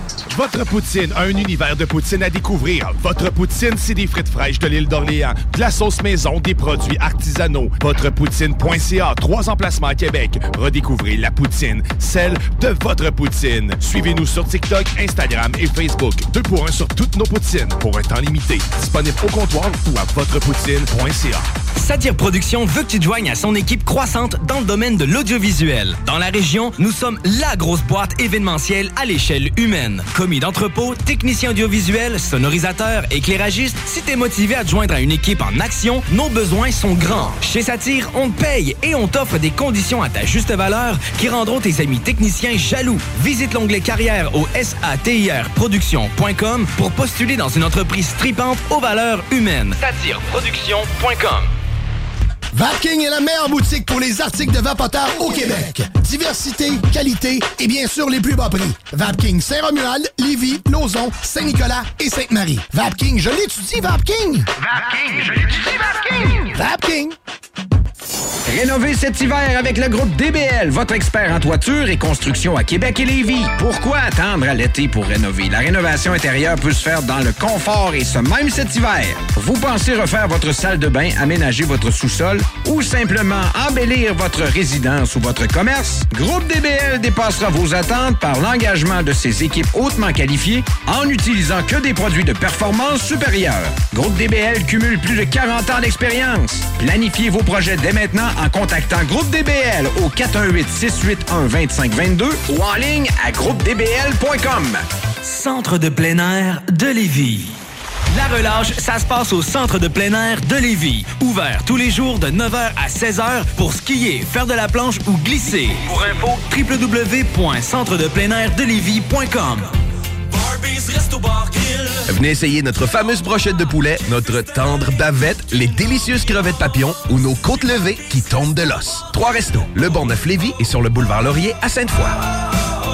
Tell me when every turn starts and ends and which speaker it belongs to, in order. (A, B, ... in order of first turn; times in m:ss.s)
0:00.3-0:21.5 A
0:21.7-0:51.5 B
0:52.5-1:04.5 C
1:06.0-1:07.1 C
1:08.4-1:44.8 D
1:45.2-1:47.6 B
1:48.1-1:59.7 B
2:00.6-2:02.0 B
2:02.1-2:12.2 E